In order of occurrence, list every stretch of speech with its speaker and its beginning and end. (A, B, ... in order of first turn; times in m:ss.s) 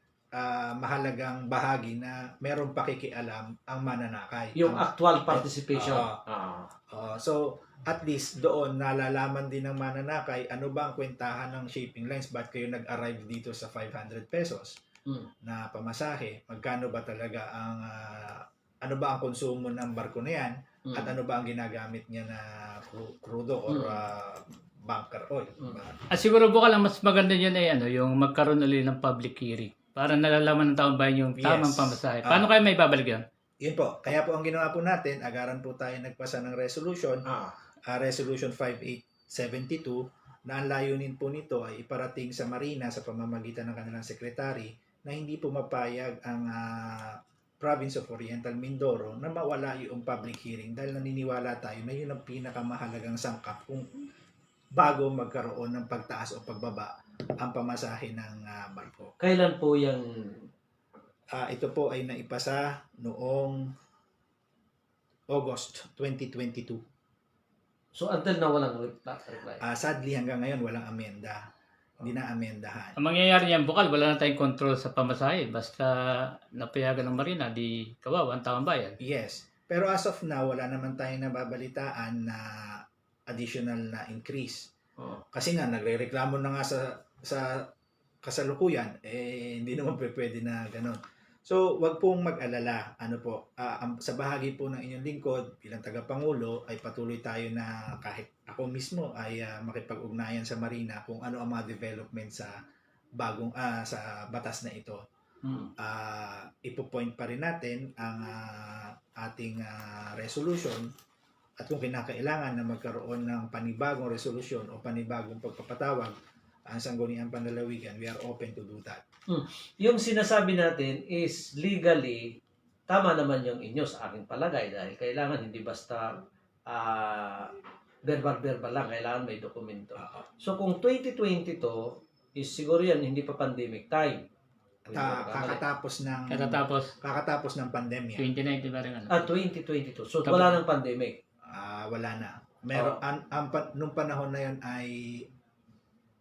0:00.3-0:06.2 A
0:04.5-0:06.7 B
0:06.9-0:14.8 A
0:15.4-0:26.0 A
0:20.9-0:21.1 B
0:23.7-0:24.0 B
0:26.1-0:33.2 C
0:31.4-0:32.5 A
0:33.6-0:37.2 A
0:37.2-0:37.5 B
0:37.9-0:54.0 A
0:54.7-0:59.1 A
0:59.2-1:00.5 B
1:01.3-1:03.7 A
1:05.3-1:06.8 A
1:07.9-1:09.6 B
1:09.6-1:13.0 A
1:13.0-1:19.0 C
1:19.0-1:24.7 A
1:25.0-1:25.2 B
1:25.3-1:27.7 A
1:28.2-1:42.6 A
1:43.2-1:45.0 A
1:45.4-1:45.7 B
1:45.8-1:50.9 A
1:51.6-1:56.1 A
1:56.7-1:59.0 A
1:59.3-2:02.3 B
2:02.9-2:14.2 B
2:14.8-2:15.6 B
2:14.9-2:18.3 A
2:16.3-2:16.9 C
2:18.2-2:19.3 C
2:19.1-2:21.2 B
2:20.2-2:20.6 C
2:21.5-2:25.3 A
2:22.7-2:23.0 B